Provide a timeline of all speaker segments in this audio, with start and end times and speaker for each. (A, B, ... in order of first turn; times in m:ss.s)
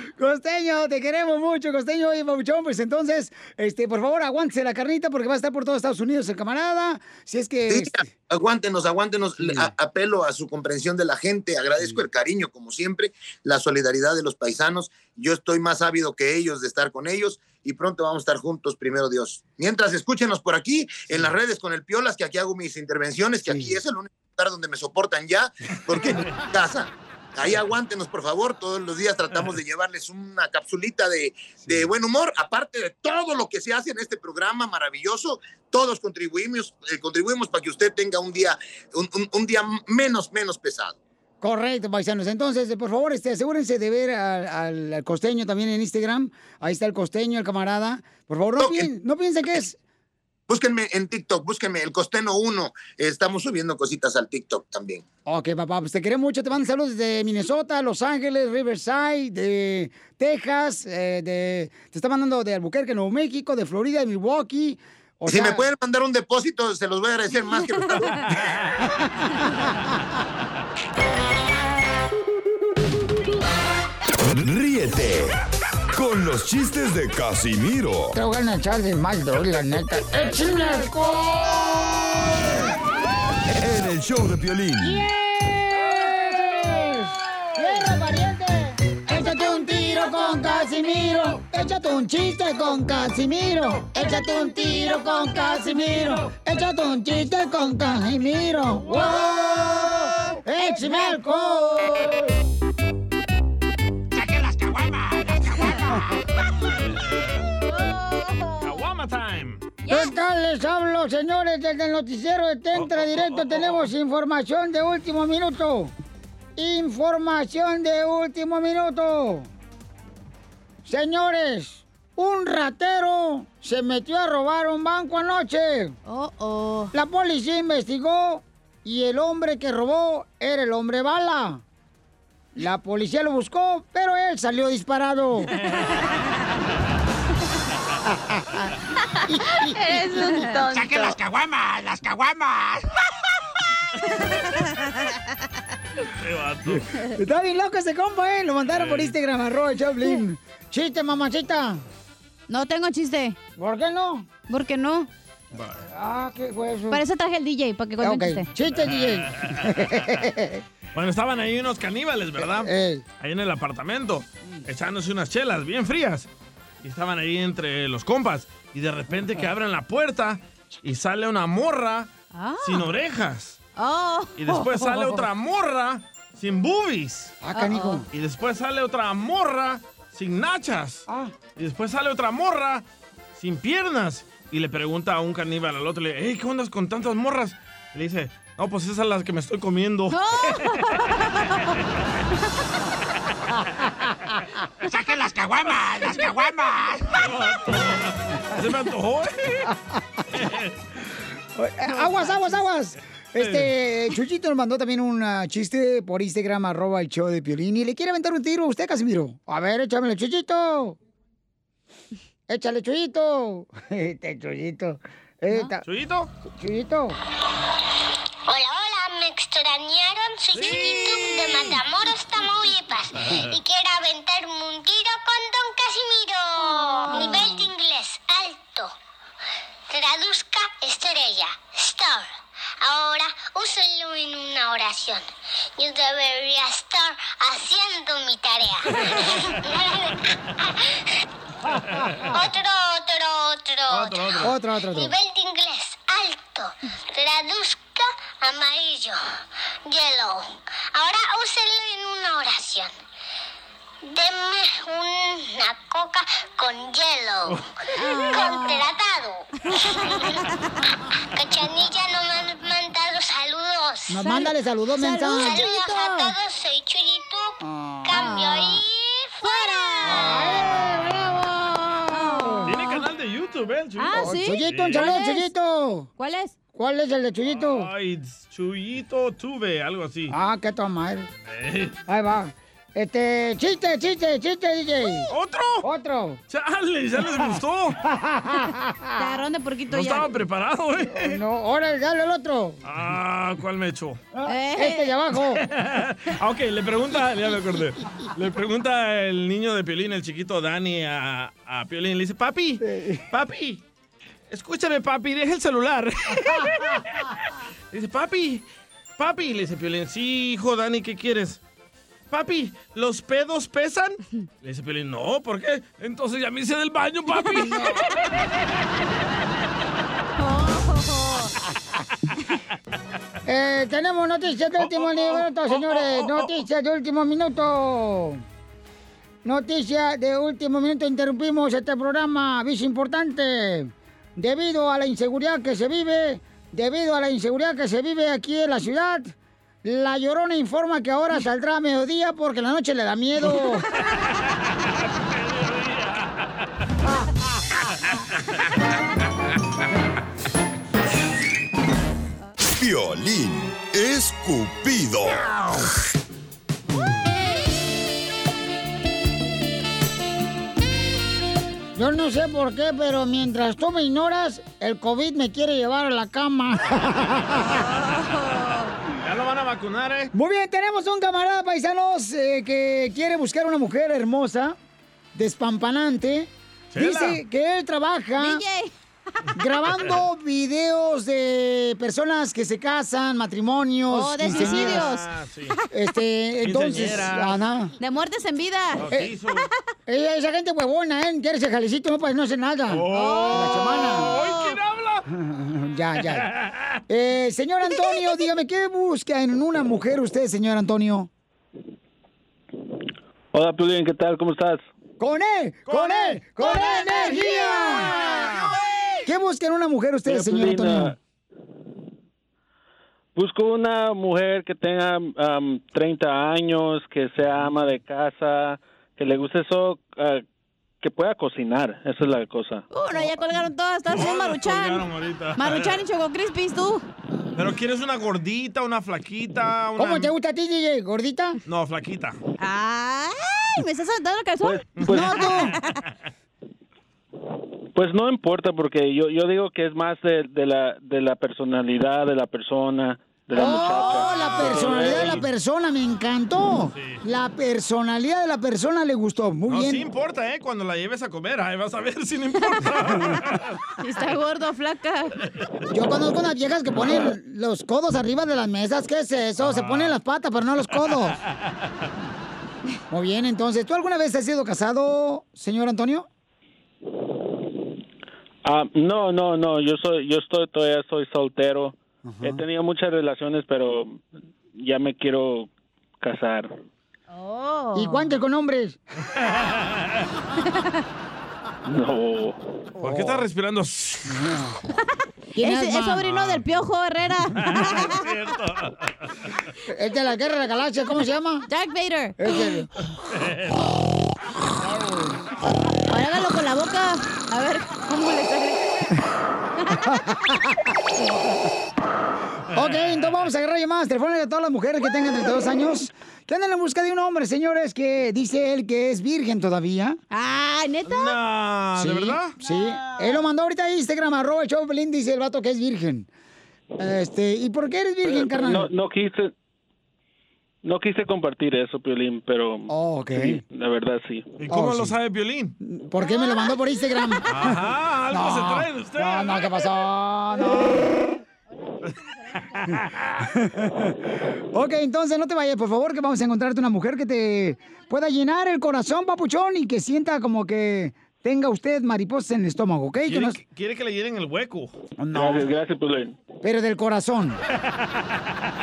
0:00.2-0:08.1 A
0:07.7-0:41.0 B
0:09.4-0:09.7 A
0:23.5-0:23.8 A
0:41.4-0:49.8 A
0:48.6-0:48.9 B
0:50.5-0:55.0 B
0:55.3-1:05.7 A
1:05.3-1:08.4 B
1:14.3-1:15.4 C
1:15.9-1:18.2 C
1:18.2-1:22.7 A
1:23.6-1:25.0 C
1:24.8-1:42.3 A
1:40.6-1:41.6 D
1:44.1-1:46.0 E
1:47.0-1:47.5 F
1:47.6-1:48.7 D
1:48.6-1:49.7 F
1:49.8-1:50.1 D
1:49.9-1:55.9 A
1:52.8-1:53.9 F
1:56.6-1:59.5 A
2:00.8-2:06.0 A
2:06.1-2:06.9 D
2:06.9-2:11.6 A
2:12.6-2:15.5 A
2:18.1-2:18.7 A
2:19.3-2:19.8 A
2:19.8-2:21.0 D
2:20.7-2:22.9 E
2:26.2-2:26.9 F
2:26.7-2:31.8 A
2:28.7-2:29.1 F
2:32.5-2:33.4 D
2:33.6-2:34.3 A
2:34.5-2:35.1 D
2:35.5-2:35.8 F
2:35.8-2:37.0 A
2:36.9-2:38.5 D
2:38.0-2:40.6 A
2:39.0-2:39.7 F
2:41.0-2:46.3 F
2:42.4-2:43.0 A
2:46.8-2:52.1 F
2:52.3-2:52.8 D
2:52.6-2:53.6 F
2:53.8-2:55.0 D
2:54.4-2:57.4 F
2:57.4-2:58.1 A
2:57.5-2:58.0 D
2:58.1-3:01.0 F
3:01.1-3:01.3 A
3:01.6-3:02.8 F
3:03.4-3:10.8 F
3:10.1-3:11.6 D
3:14.8-3:17.2 E
3:17.2-3:19.7 F
3:19.7-3:20.0 A
3:20.3-3:20.8 F
3:21.6-3:31.0 A
3:23.4-3:23.7 F
3:32.5-3:35.8 A
3:35.8-3:36.3 F
3:36.5-3:37.2 A
3:38.5-3:48.9 G
3:40.6-3:41.2 F
3:47.0-3:47.6 D
3:49.9-4:01.0 G
4:02.3-4:04.4 G
4:03.9-4:04.5 F
4:04.4-4:05.1 A
4:04.9-4:13.0 G
4:14.1-4:17.6 G
4:18.0-4:18.8 D
4:18.2-4:20.4 G
4:19.7-4:20.6 D
4:21.4-4:24.2 G
4:24.1-4:25.6 A
4:24.2-4:26.3 D
4:25.3-4:30.3 G
4:27.6-4:28.2 A
4:28.2-4:28.8 D
4:29.4-4:30.8 D
4:30.0-4:32.8 A
4:32.1-4:33.0 D
4:32.7-4:35.1 F
4:34.0-4:35.5 D
4:34.1-4:36.1 A
4:36.2-4:36.6 D
4:36.8-4:37.9 A
4:37.5-4:40.4 F
4:40.3-4:41.3 A
4:41.5-4:42.0 F
4:42.1-4:45.3 A
4:45.3-4:45.8 F
4:45.8-4:46.4 A
4:46.5-4:48.0 F
4:48.0-4:49.4 A
4:49.2-4:50.3 D
4:49.9-4:51.4 F
4:51.1-4:52.8 A
4:52.8-4:54.2 F
4:54.3-4:55.6 A
4:54.5-4:55.1 D
4:55.5-5:03.8 F
5:02.8-5:03.2 A
5:04.5-5:07.1 F
5:07.9-5:08.7 F
5:09.2-5:11.6 F
5:12.3-5:18.0 F
5:20.4-5:21.5 D
5:23.5-5:28.4 A
5:24.8-5:26.6 F
5:29.4-5:43.9 A
5:45.4-5:46.3 F
5:52.6-5:55.5 C
6:02.0-6:07.8 A
6:07.8-6:08.9 D
6:09.2-6:10.3 F
6:10.3-6:14.8 A
6:15.4-6:18.6 A
6:16.9-6:17.4 F
6:18.4-6:18.9 D
6:19.6-6:25.1 A
6:24.1-6:25.3 D
6:24.5-6:25.8 F
6:25.9-6:27.9 A
6:26.6-6:27.6 F
6:28.0-6:29.0 D
6:29.0-6:29.7 F
6:30.1-6:34.3 A
6:32.9-6:35.2 F
6:33.1-6:34.8 D
6:35.3-6:36.5 A
6:36.3-6:37.0 F
6:37.1-6:41.3 A
6:43.5-6:44.9 H
6:45.2-6:48.2 A
6:45.9-6:46.6 F
6:47.1-6:47.7 D
6:48.1-6:48.6 F
6:49.3-6:51.2 A
6:50.3-6:51.2 H
6:53.4-7:00.4 H
7:01.0-7:02.9 H
7:02.9-7:05.0 D
7:04.1-7:06.0 F
7:05.6-7:07.1 D
7:07.6-7:10.3 F
7:10.0-7:11.6 A
7:11.7-7:12.4 F
7:12.6-7:15.9 D
7:15.0-7:15.6 F
7:15.1-7:15.8 A
7:18.0-7:25.5 H
7:23.5-7:30.0 A
7:23.6-7:25.1 D
7:24.3-7:25.1 F
7:26.9-7:27.2 F
7:29.7-7:33.8 F
7:34.0-7:35.4 D
7:35.9-7:41.4 A
7:39.6-7:40.2 F
7:43.1-7:46.3 A
7:48.6-7:55.7 H
7:52.3-7:52.6 A
7:56.2-7:56.7 H
7:57.3-7:58.3 D
7:57.9-7:59.0 A
7:59.4-8:00.0 F
8:00.6-8:01.0 D
8:01.9-8:02.6 H
8:03.0-8:04.4 F
8:03.0-8:03.3 A
8:04.3-8:04.8 A
8:05.6-8:06.2 A
8:05.6-8:08.3 D
8:06.2-8:06.8 F
8:07.6-8:09.3 F
8:09.9-8:11.7 A
8:11.7-8:12.7 D
8:12.4-8:12.9 A
8:13.3-8:13.8 F
8:14.8-8:15.4 A
8:16.1-8:19.1 D
8:20.1-8:20.7 A
8:22.7-8:30.2 A
8:22.8-8:23.4 F
8:30.3-8:31.3 D
8:31.1-8:32.6 F
8:32.0-8:36.3 A
8:37.0-8:38.9 A
8:38.2-8:39.5 H
8:40.8-8:44.6 H
8:42.9-8:43.6 A
8:44.6-8:45.8 F
8:44.7-8:45.2 A
8:45.8-8:47.8 A
8:46.2-8:47.4 D
8:47.5-8:49.7 F
8:48.3-8:51.2 A
8:52.7-8:53.4 F
8:53.6-8:54.2 A
8:54.7-9:03.6 A
9:03.3-9:04.9 F
9:05.2-9:05.7 A
9:05.3-9:06.4 H
9:06.6-9:07.6 A